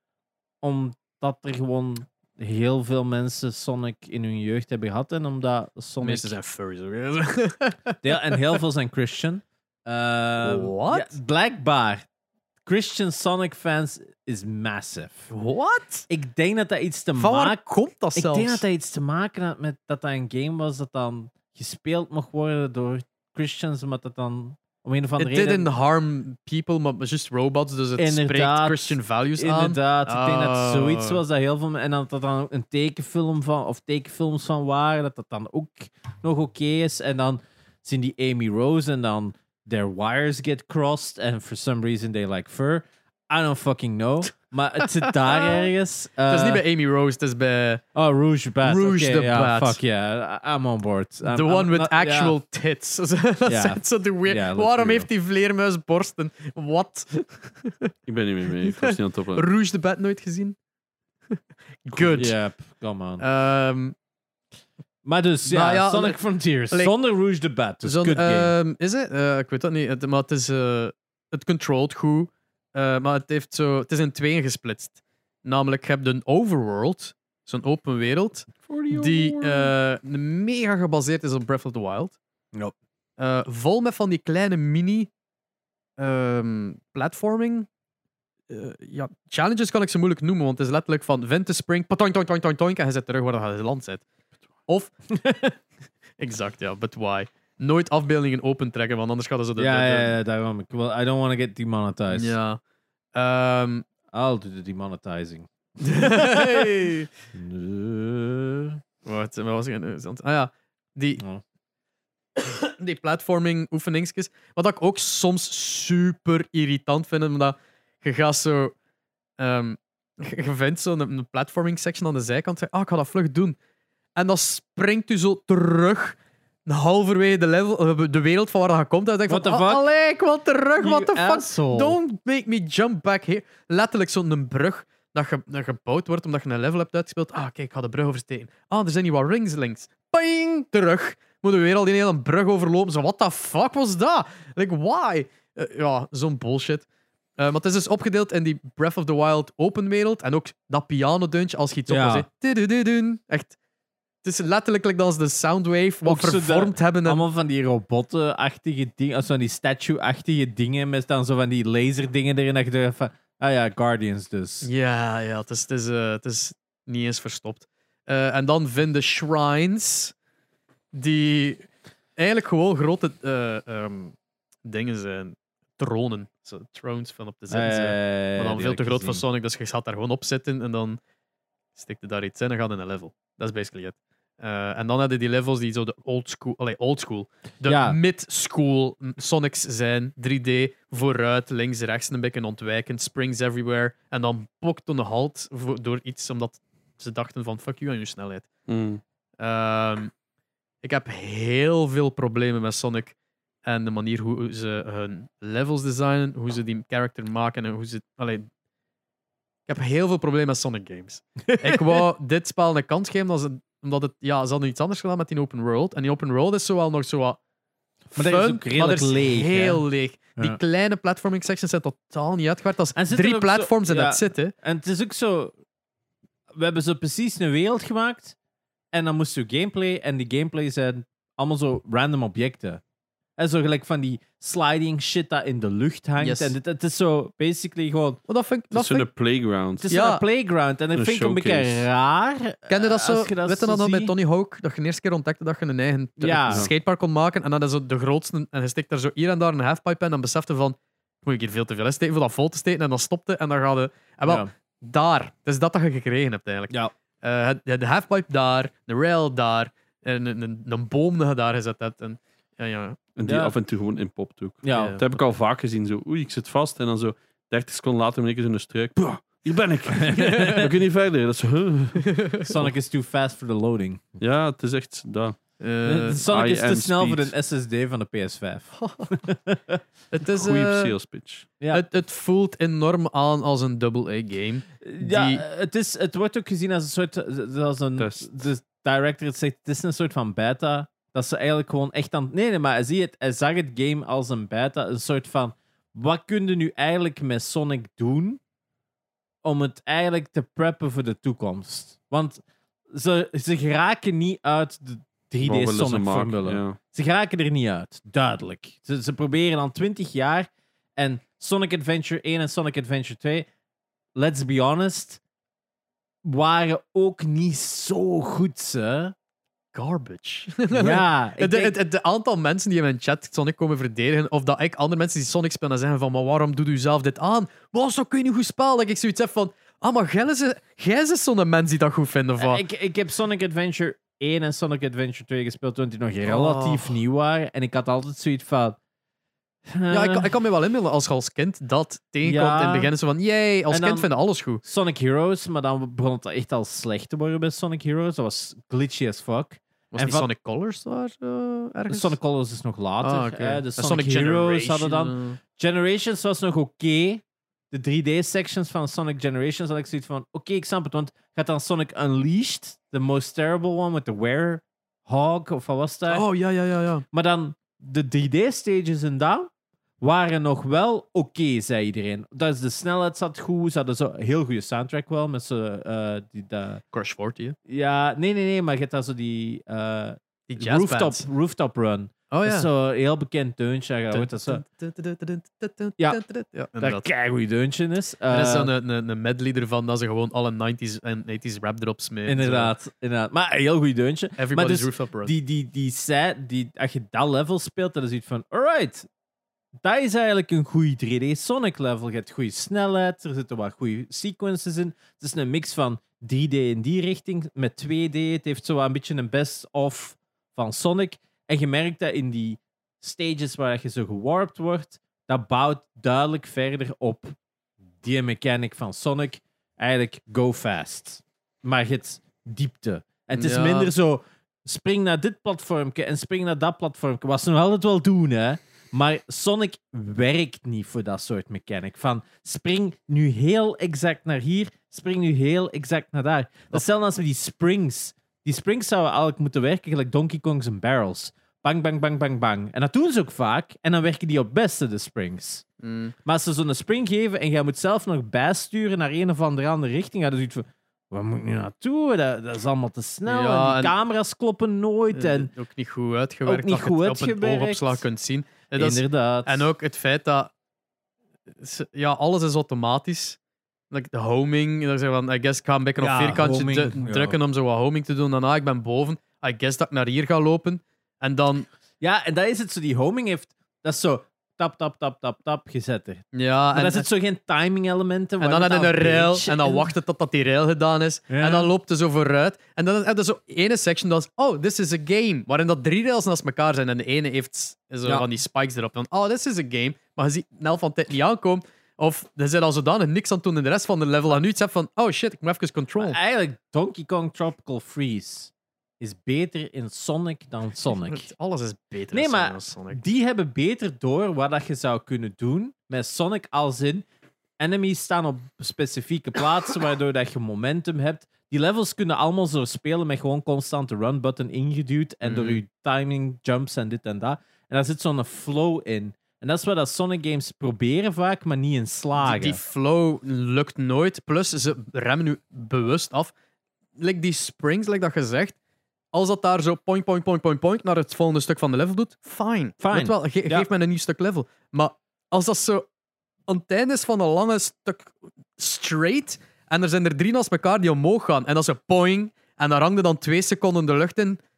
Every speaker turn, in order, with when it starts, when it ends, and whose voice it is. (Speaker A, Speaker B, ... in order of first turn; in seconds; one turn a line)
Speaker A: 0.6-6.4
Speaker B: 6.0-8.6
Speaker A: 8.0-12.1
Speaker B: 10.4-11.2
Speaker A: 12.7-15.3
Speaker B: 15.3-16.1
Speaker A: 16.1-17.6
Speaker B: 17.2-18.6
Speaker A: 18.1-25.7
Speaker B: 25.2-31.2
Speaker A: 28.0-46.6
Speaker B: 45.1-45.7
Speaker B: 46.3-47.8
Speaker A: 48.0-52.4
Speaker B: 48.6-49.8
Speaker B: 51.2-57.9
Speaker A: 53.5-55.1
Speaker C: 58.1-59.5
Speaker B: 58.6-60.6
Speaker B: 61.3-62.3
Speaker A: 62.1-63.2
Speaker B: 63.2-64.0
Speaker A: 65.0-68.5
Speaker B: 65.5-66.9
Speaker B: 67.8-82.2
Speaker A: 78.7-79.7
Speaker B: 83.2-85.1
Speaker B: 86.0-87.7
Speaker B: 88.5-94.0
Speaker A: 95.1-95.5
Speaker B: 96.2-100.1
Speaker A: 99.6-102.4
Speaker B: 102.1-102.6
Speaker B: 103.2-103.9
Speaker A: 104.1-106.7
Speaker B: 105.8-107.1
Speaker A: 107.3-108.8
Speaker B: 109.0-111.2
Speaker B: 112.4-118.7
Speaker B: 119.4-123.6
Speaker B: 124.2-146.8
Speaker A: 129.3-129.9
Speaker A: 130.8-132.0
Speaker B: 147.4-153.6
Speaker A: 151.9-152.3
Speaker B: 154.2-157.2
Speaker A: 156.0-164.7
Speaker B: 164.6-170.1
Speaker B: 170.9-181.0
Speaker A: 177.5-179.2
Speaker B: 181.8-198.5
Speaker A: 187.6-188.0
Speaker C: 198.7-199.0
Speaker B: 199.4-200.1
Speaker B: 200.8-208.5
Speaker B: 209.7-217.4
Speaker A: 211.5-212.1
Speaker B: 218.1-224.5
Speaker A: 218.2-219.8
Speaker A: 223.0-225.6
Speaker A: 226.5-228.4
Speaker A: 228.9-232.8
Speaker A: 233.4-238.2
Speaker B: 236.2-236.6
Speaker B: 238.3-239.1
Speaker C: 238.7-239.9
Speaker A: 239.8-244.1
Speaker B: 239.9-240.2
Speaker C: 240.9-241.9
Speaker B: 242.7-263.0
Speaker A: 246.2-246.7
Speaker A: 254.3-254.5
Speaker C: 263.2-272.7
Speaker A: 263.3-263.5
Speaker A: 264.6-265.0
Speaker B: 264.7-265.0
Speaker A: 270.0-270.7
Speaker B: 272.2-272.5
Speaker A: 272.4-274.2
Speaker C: 274.2-275.4
Speaker B: 275.6-276.2
Speaker A: 275.9-279.8
Speaker C: 276.2-277.3
Speaker B: 278.8-279.1
Speaker B: 280.1-280.9
Speaker C: 280.2-281.5
Speaker B: 281.7-285.4
Speaker A: 284.8-298.4
Speaker C: 288.0-288.3
Speaker A: 299.4-313.5
Speaker C: 305.4-306.8
Speaker A: 314.1-315.2
Speaker A: 316.2-319.1
Speaker B: 319.7-332.6
Speaker A: 320.7-321.8
Speaker A: 332.4-338.8
Speaker B: 336.3-337.0
Speaker A: 339.7-340.3
Speaker B: 339.9-344.6
Speaker A: 342.2-342.9
Speaker A: 343.7-344.1
Speaker A: 344.6-350.3
Speaker B: 349.9-352.2
Speaker A: 351.9-366.3
Speaker B: 353.0-355.4
Speaker B: 366.1-367.0
Speaker A: 367.1-376.8
Speaker B: 376.9-377.6
Speaker A: 377.7-384.6
Speaker B: 380.5-381.2
Speaker B: 382.3-382.7
Speaker B: 384.1-387.1
Speaker A: 386.8-388.7
Speaker B: 388.3-392.7
Speaker A: 392.3-399.1
Speaker B: 394.4-395.3
Speaker A: 399.8-417.4
Speaker A: 418.0-445.6
Speaker B: 423.4-423.9
Speaker B: 445.8-446.1
Speaker A: 446.2-455.5
Speaker B: 453.3-453.9
Speaker B: 455.1-460.5
Speaker A: 456.5-458.1
Speaker A: 458.8-459.7
Speaker B: 461.6-463.4
Speaker B: 463.9-471.7
Speaker A: 466.0-467.4
Speaker A: 472.0-479.9
Speaker B: 476.3-477.1
Speaker B: 478.4-496.2
Speaker A: 481.3-481.7
Speaker A: 496.0-501.3
Speaker B: 500.9-503.0
Speaker A: 502.1-507.1
Speaker A: 507.6-522.6
Speaker B: 515.2-515.6
Speaker B: 522.2-526.3
Speaker B: 527.0-528.6
Speaker B: 529.1-535.9
Speaker A: 532.8-533.7
Speaker B: 536.5-544.4